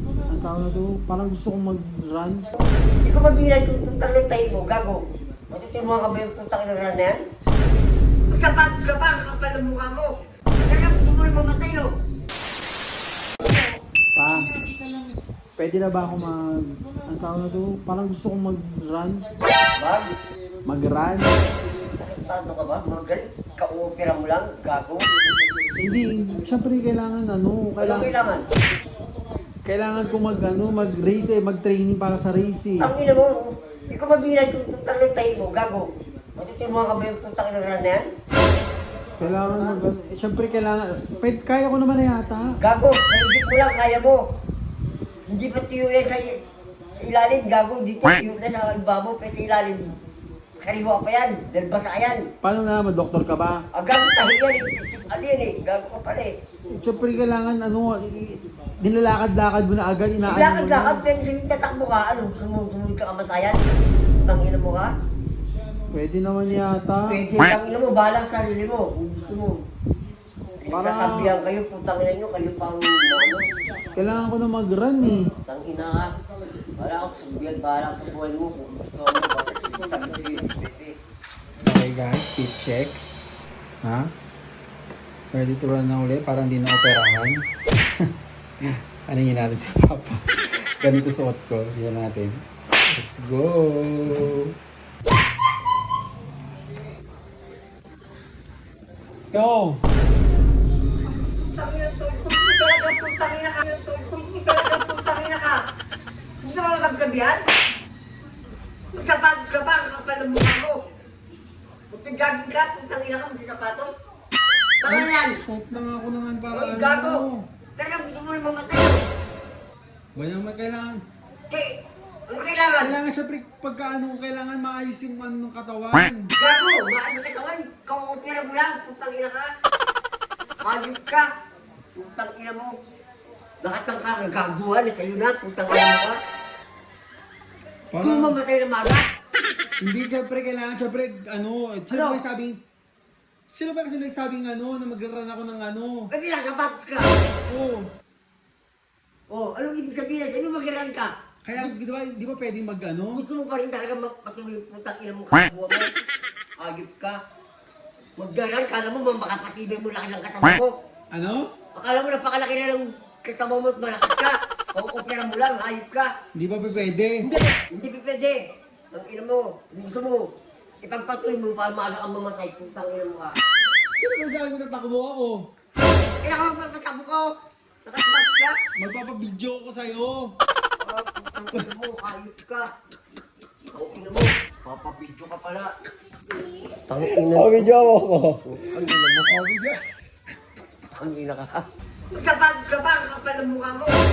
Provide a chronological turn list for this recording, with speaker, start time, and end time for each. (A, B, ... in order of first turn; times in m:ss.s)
0:00.3-0:02.5 A
0:02.5-0:07.2 B
0:08.3-0:10.1 B
0:10.7-0:11.9 B
0:14.2-0:14.4 A
0:15.6-0:19.2 A
0:19.8-0:20.1 B
0:20.6-0:21.4 A
0:22.0-0:25.0 B
0:25.8-0:28.1 A
0:27.8-0:28.5 B
0:29.6-0:32.9 A
0:32.8-0:38.0 B
0:39.2-0:42.6 A
0:39.2-0:39.8 B
0:42.6-0:44.2 B
0:45.3-0:46.4 B
0:47.0-0:49.9 B
0:50.6-0:52.2 B
0:52.4-0:53.6 A
0:53.7-0:56.3 B
0:56.8-1:01.0 A
1:00.2-1:03.6 B
1:04.2-1:04.9 B
1:05.9-1:07.2 A
1:07.0-1:09.5 B
1:10.6-1:13.5 B
1:10.7-1:11.3 A
1:13.9-1:15.3 A
1:15.4-1:16.1 B
1:16.8-1:20.9 B
1:21.6-1:23.0 A
1:23.8-1:24.1 A
1:25.3-1:27.5 A
1:28.6-1:34.5 A
1:39.3-1:39.8 A
1:41.3-1:45.6 B
1:46.4-1:47.4 B
1:49.0-1:50.8 B
1:51.9-1:53.9 B
1:54.8-1:55.4 B
1:54.8-1:57.4 A
1:56.5-1:57.2 B
1:57.8-1:59.0 B
2:00.1-2:01.0 A
2:02.3-2:03.0 B
2:02.8-2:06.3 A
2:06.4-2:09.5 B
2:10.6-2:11.2 B
2:11.9-2:12.7 B
2:13.6-2:16.2 B
2:17.9-2:18.4 A
2:18.0-2:19.0 B
2:19.8-2:22.6 A
2:21.9-2:22.2 B
2:23.5-2:26.1 A
2:26.1-2:27.1 B
2:27.5-2:27.9 A
2:29.3-2:31.7 B
2:31.4-2:33.2 A
2:33.1-2:35.9 B
2:36.6-2:37.2 B
2:38.2-2:40.7 B
2:41.1-2:41.5 A
2:41.7-2:46.1 B
2:46.3-2:47.2 A
2:47.2-2:48.4 B
2:48.9-2:50.2 B
2:50.8-2:53.3 B
2:54.0-2:55.5 A
2:56.2-2:57.3 B
2:57.8-2:58.5 B
2:58.8-3:00.3 A
3:00.8-3:02.7 B
3:03.7-3:05.7 B
3:06.9-3:07.8 B
3:07.0-3:09.8 A
3:08.4-3:09.3 B
3:11.0-3:11.6 B
3:12.2-3:14.0 B